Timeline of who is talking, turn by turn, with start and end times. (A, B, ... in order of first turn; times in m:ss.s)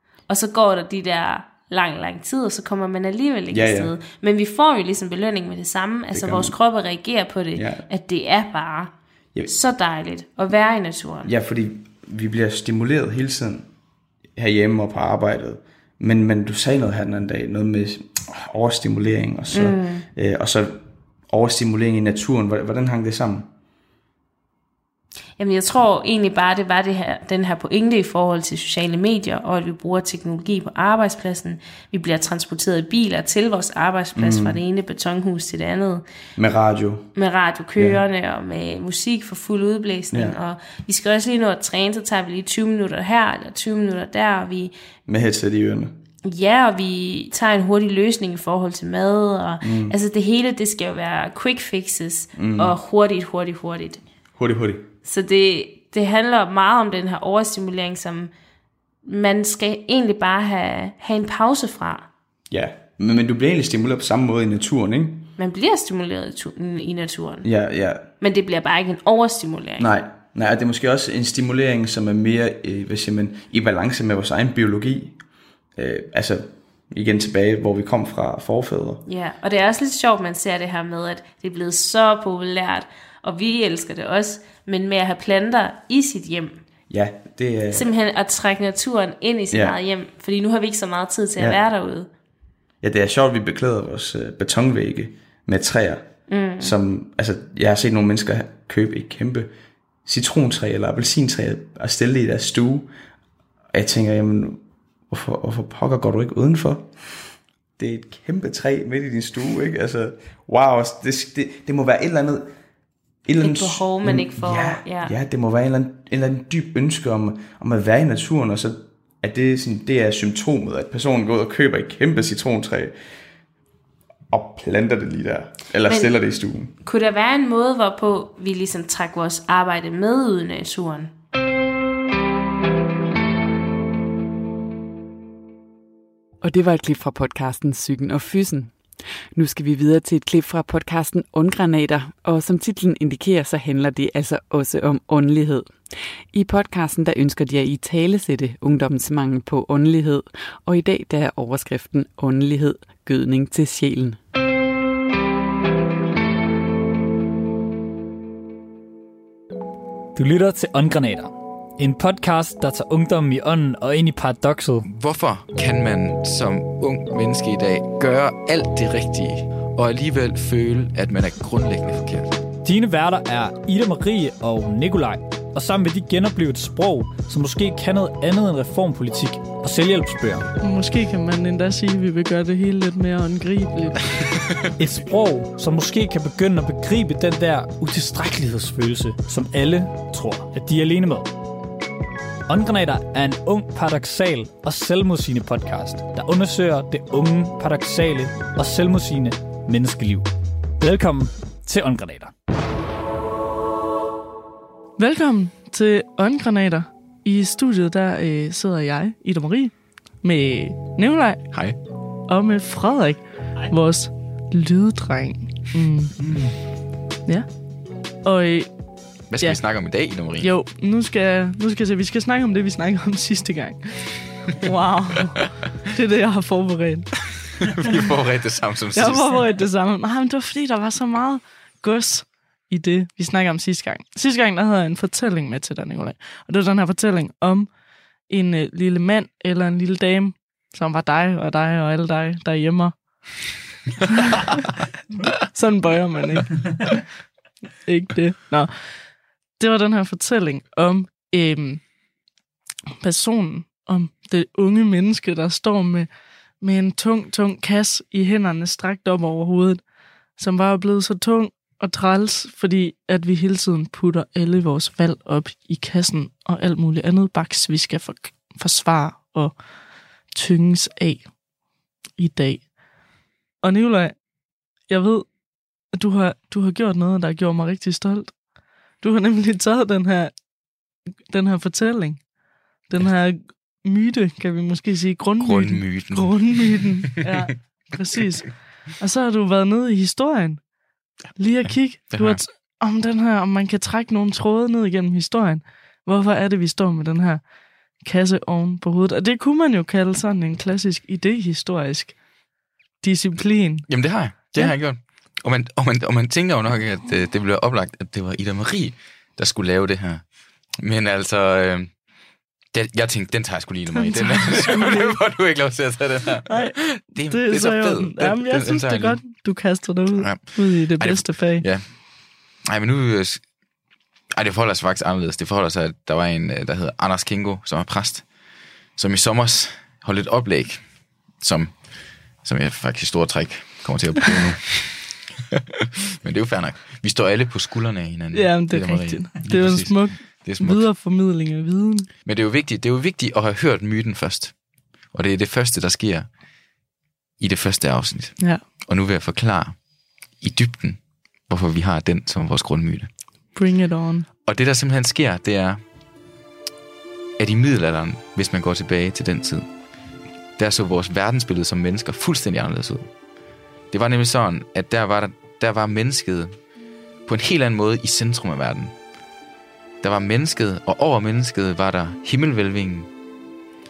0:00.3-0:08.9 A
0:03.5-0:03.9 B
0:06.1-0:06.6 B
0:07.5-0:07.8 B
0:09.5-0:11.3 A
0:11.2-0:13.7 B
0:14.4-0:23.5 B
0:19.5-0:20.0 A
0:25.4-0:36.0 A
0:34.1-0:34.6 B
0:36.4-0:37.1 B
0:37.1-0:44.7 A
0:37.8-0:38.0 B
0:40.1-0:40.4 B
0:45.1-0:46.0 B
0:46.2-0:54.0 A
0:49.6-0:49.9 B
0:52.3-0:52.8 B
0:54.4-0:54.9 B
0:55.0-0:58.3 A
0:59.0-1:02.1 A
1:02.5-1:05.3 B
1:05.4-1:07.5 A
1:07.4-1:08.1 B
1:08.1-1:09.9 A
1:09.8-1:15.2 B
1:15.8-1:19.0 B
1:19.0-1:26.6 A
1:26.9-1:27.9 B
1:27.7-1:32.1 A
1:29.5-1:29.8 B
1:32.8-1:39.5 B
1:36.2-1:36.8 A
1:40.0-1:42.9 B
1:43.7-1:46.9 B
1:47.8-1:52.5 B
1:53.2-2:02.9 B
1:53.4-1:55.1 A
2:04.3-2:06.7 B
2:05.9-2:06.2 A
2:06.8-2:11.1 A
2:16.4-2:34.2 C
2:40.1-2:44.8 D
2:44.8-2:52.4 E
2:52.6-3:00.5 D
3:00.6-3:04.0 F
3:04.8-3:11.3 D
3:12.5-3:22.3 D
3:25.0-3:31.6 F
3:31.5-3:31.8 E
3:32.3-3:36.2 F
3:38.2-3:38.7 F
3:39.3-3:40.5 E
3:40.3-3:47.1 F
3:47.6-3:49.5 E
3:48.9-3:57.7 F
3:58.3-4:03.5 F
4:04.1-4:04.5 F
4:05.2-4:06.9 F
4:07.8-4:09.0 F
4:09.6-4:11.9 F
4:13.0-4:16.1 F
4:16.6-4:19.8 F
4:20.4-4:29.6 F
4:30.3-4:31.3 F
4:32.2-4:32.8 F
4:33.6-4:34.2 F
4:34.9-4:35.4 F
4:35.9-4:38.4 F
4:39.0-4:40.4 F
4:41.3-4:50.7 F
4:45.4-4:47.3 E
4:51.4-4:57.4 F
4:52.1-4:52.4 E
4:58.0-5:02.2 F
5:03.0-5:04.8 F
5:03.9-5:12.0 E
5:12.7-5:19.3 E
5:13.9-5:15.2 F
5:16.4-5:21.7 F
5:20.1-5:23.5 E
5:24.3-5:28.4 E
5:28.9-5:35.3 E
5:36.2-5:40.9 E
5:38.3-5:42.1 F
5:42.2-5:46.4 E
5:47.4-5:53.1 E
5:48.4-5:48.7 F
5:53.4-5:54.3 F
5:54.4-5:55.8 E
5:57.4-5:59.8 E
6:00.6-6:03.1 E
6:03.9-6:06.6 E
6:07.2-6:09.0 E
6:10.0-6:13.1 E